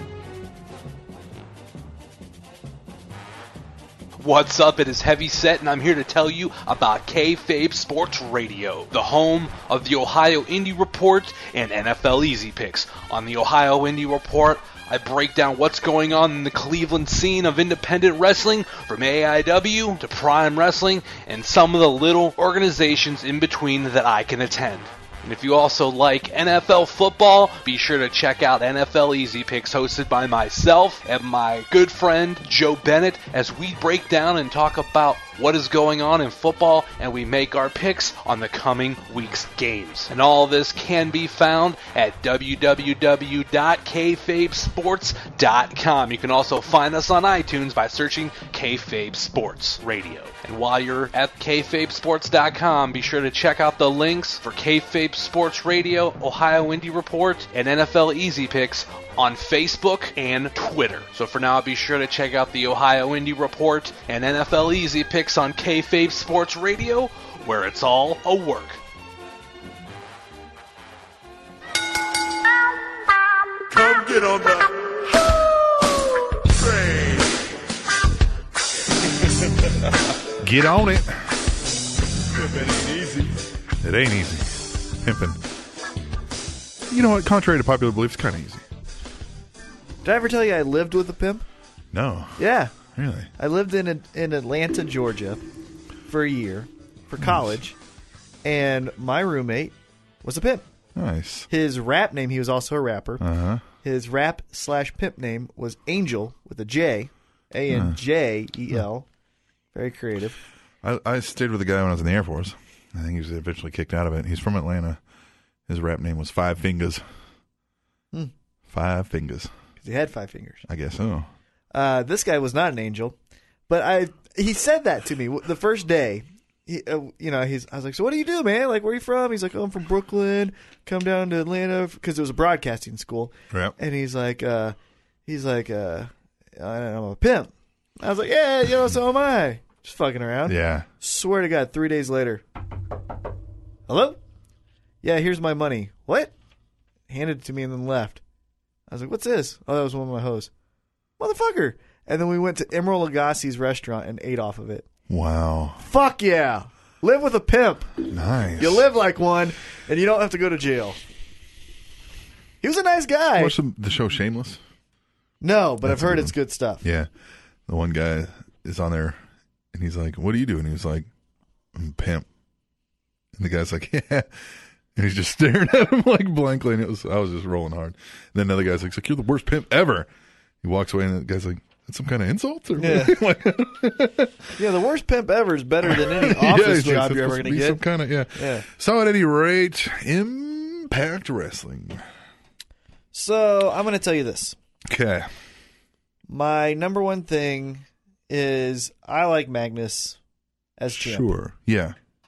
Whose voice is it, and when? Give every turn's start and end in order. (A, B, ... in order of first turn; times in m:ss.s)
0:04.2-1:08.8 A
1:13.7-1:14.7 B
1:16.6-1:17.3 B
1:20.4-1:21.3 C
1:22.4-1:23.5 B
1:23.8-1:25.4 C
1:26.9-1:28.6 C
1:30.0-1:31.4 D
1:31.9-1:33.3 C
1:32.4-1:32.7 D
1:33.4-1:35.4 D
1:36.1-1:37.8 D
1:37.2-1:37.5 C
1:38.4-1:40.6 D
1:40.9-1:41.5 C
1:41.5-1:43.2 D
1:43.2-1:43.6 C
1:43.8-1:49.1 D
1:47.7-1:48.0 C
1:49.7-1:50.4 D
1:50.8-1:55.0 C
1:55.7-1:57.0 C
1:58.7-1:59.5 C
1:59.8-2:00.6 D
2:00.7-2:01.3 C
2:01.7-2:03.2 D
2:03.7-2:22.4 D
2:20.4-2:20.9 C
2:23.9-2:24.2 D
2:25.0-2:26.3 D
2:27.1-2:28.2 D
2:28.9-2:30.5 D
2:31.2-2:34.8 D
2:35.1-2:35.8 C
2:35.8-2:38.0 D
2:38.1-2:38.8 C
2:38.6-2:41.0 D
2:42.6-2:43.6 D
2:43.4-2:44.6 C
2:45.4-2:46.8 D
2:45.8-2:47.1 C
2:47.7-2:49.2 C
2:49.7-2:51.1 C
2:51.7-2:52.2 C
2:53.4-2:54.3 C
2:55.0-3:00.1 C
3:00.6-3:04.5 C
3:02.8-3:03.2 D
3:04.5-3:07.8 D
3:05.8-3:12.0 C
3:08.3-3:08.6 D
3:13.1-3:14.6 D
3:14.9-3:15.3 C
3:16.3-3:20.2 D
3:20.8-3:21.3 D
3:20.9-3:22.0 C